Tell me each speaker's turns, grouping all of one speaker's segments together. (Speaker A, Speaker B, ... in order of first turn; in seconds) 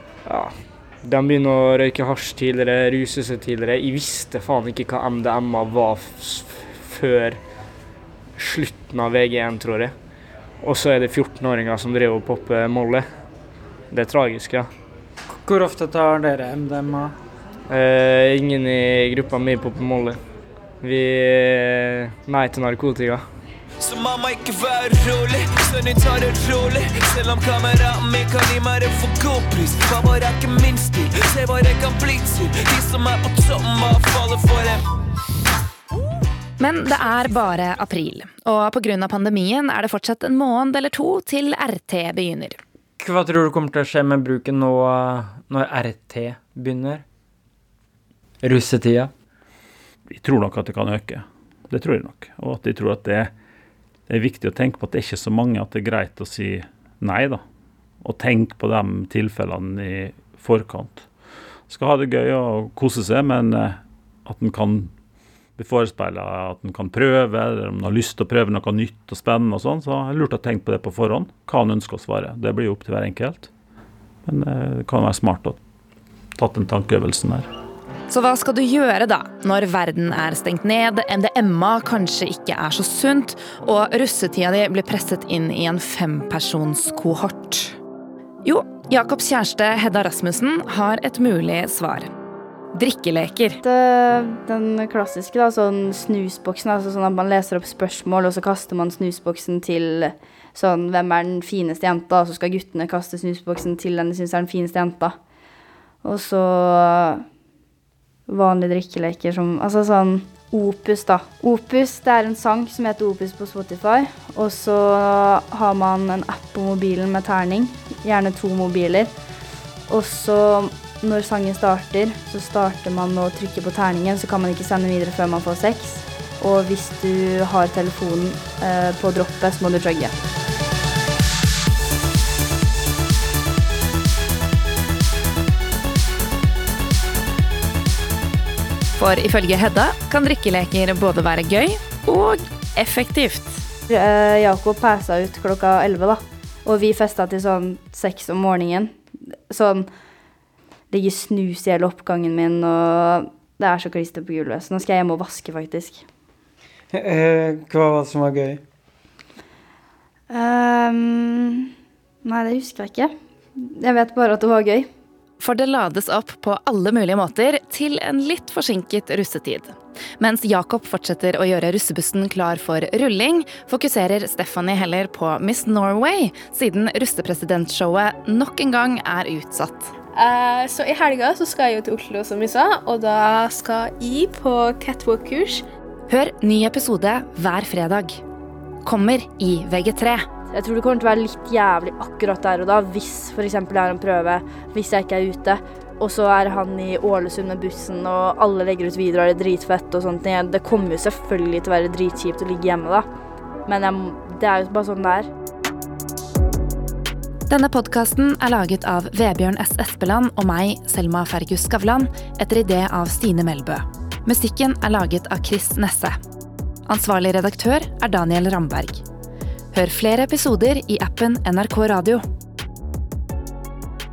Speaker A: 0.2-7.4, 8.4-9.9, 10.6-13.0, 13.9-14.7, 17.7-20.2, 20.8-23.2
Speaker B: 15.4-17.1, 43.0-47.0, 48.4-49.1, 156.9-158.6
Speaker C: 23.8-34.8
Speaker D: 36.6-42.6, 78.1-87.8, 88.4-92.1, 92.7-93.6, 138.9-143.6, 165.4-179.9, 186.1-188.2, 188.8-190.2, 207.5-216.2, 216.9-219.0, 219.7-222.2
Speaker E: 50.1-53.3, 54.1-57.4, 58.0-61.0, 61.7-64.9, 65.6-73.5, 74.2-75.6, 76.3-77.5
Speaker F: 93.6-105.1, 106.0-107.2, 108.3-119.1, 119.9-130.1, 143.9-149.9, 150.9-156.0, 160.3-161.7, 162.2-164.9, 190.5-203.0, 203.7-205.3
Speaker G: 180.1-185.6